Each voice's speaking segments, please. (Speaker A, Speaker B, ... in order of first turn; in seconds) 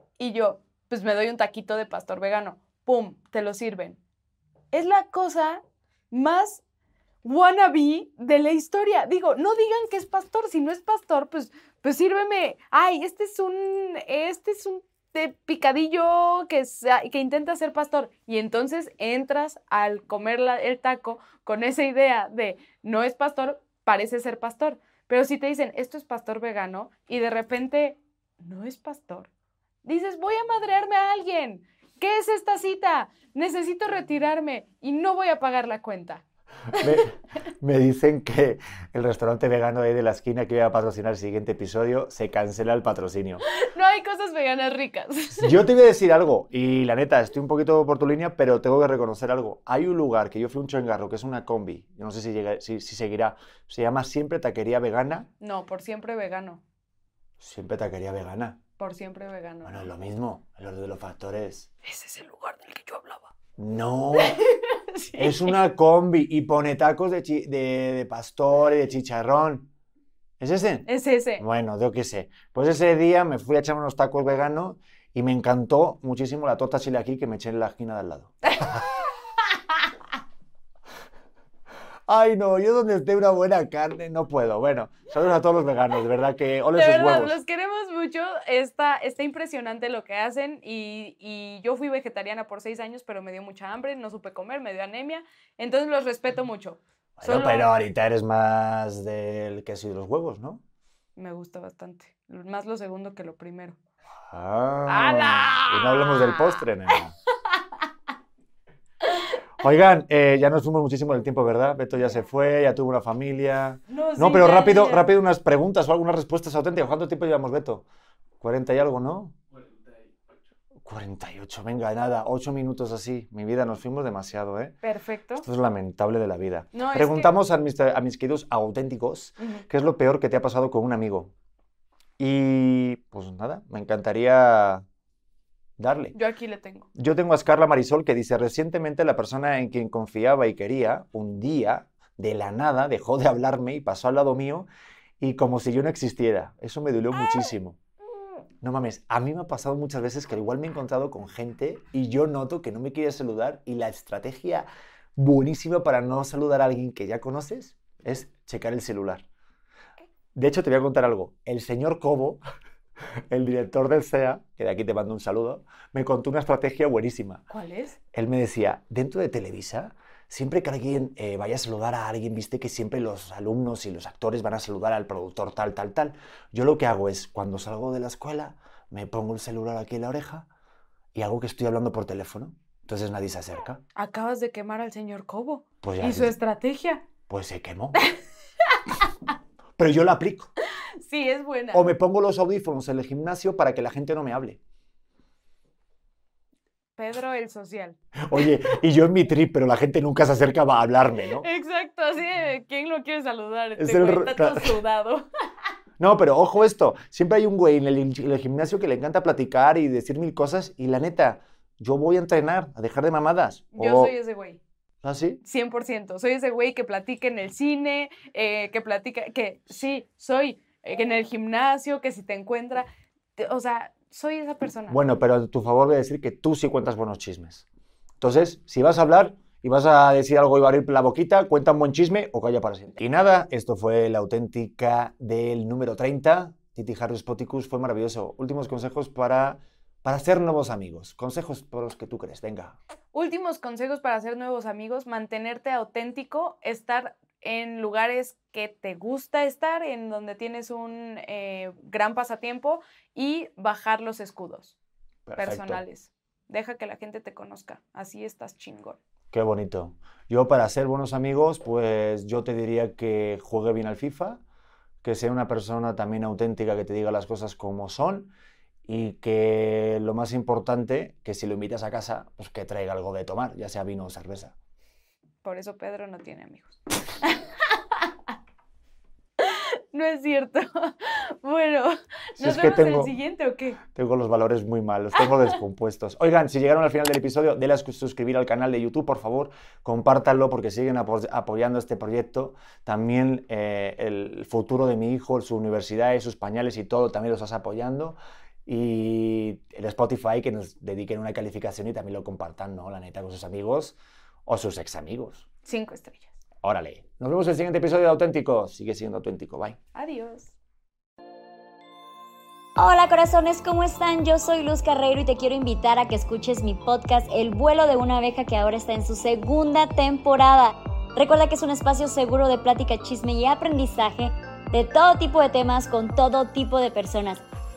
Speaker A: 0.2-4.0, 4.7-6.6, 7.2-29.3, 29.8-36.2, 36.7-37.0, 43.5-45.6, 55.4-56.6, 58.8-59.9, 61.8-63.3, 64.2-65.5, 70.9-71.4, 86.7-97.7, 101.2-103.8, 104.9-106.6, 113.9-115.0, 124.8-125.5, 126.7-127.3, 129.4-129.7, 136.1-136.9, 167.5-168.0, 183.9-187.1, 187.9-189.3, 190.9-191.9, 197.0-198.5, 201.4-205.3, 213.7-214.6, 215.4-225.0, 243.1-254.8, 255.4-259.0, 275.4-278.1, 279.4-283.8, 305.6-306.3, 309.9-310.5
Speaker B: 36.8-43.4, 45.4-55.3, 57.4-58.6, 59.6-61.7, 63.6-64.4, 65.1-69.7, 70.4-70.9, 71.4-78.8, 82.1-87.4, 97.2-100.6, 104.3-107.1, 109.6-117.8, 118.4-119.4, 120.8-124.8, 125.4-131.3, 132.2-134.8, 135.8-136.2, 136.9-144.7, 145.2-147.8, 148.6-159.2, 160.3-162.4, 163.3-167.4, 168.1-180.5, 181.1-183.8, 185.8-186.4, 187.3-188.0, 189.8-190.5, 191.7-194.6, 198.2-201.4, 203.8-204.8, 206.0-214.1, 215.0-215.4, 224.9-227.7, 228.2-242.8, 255.2-255.8, 259.3-264.4, 265.0-268.3, 268.9-274.5, 282.4-283.1, 283.9-305.4, 306.6-309.8
Speaker C: 312.8-327.4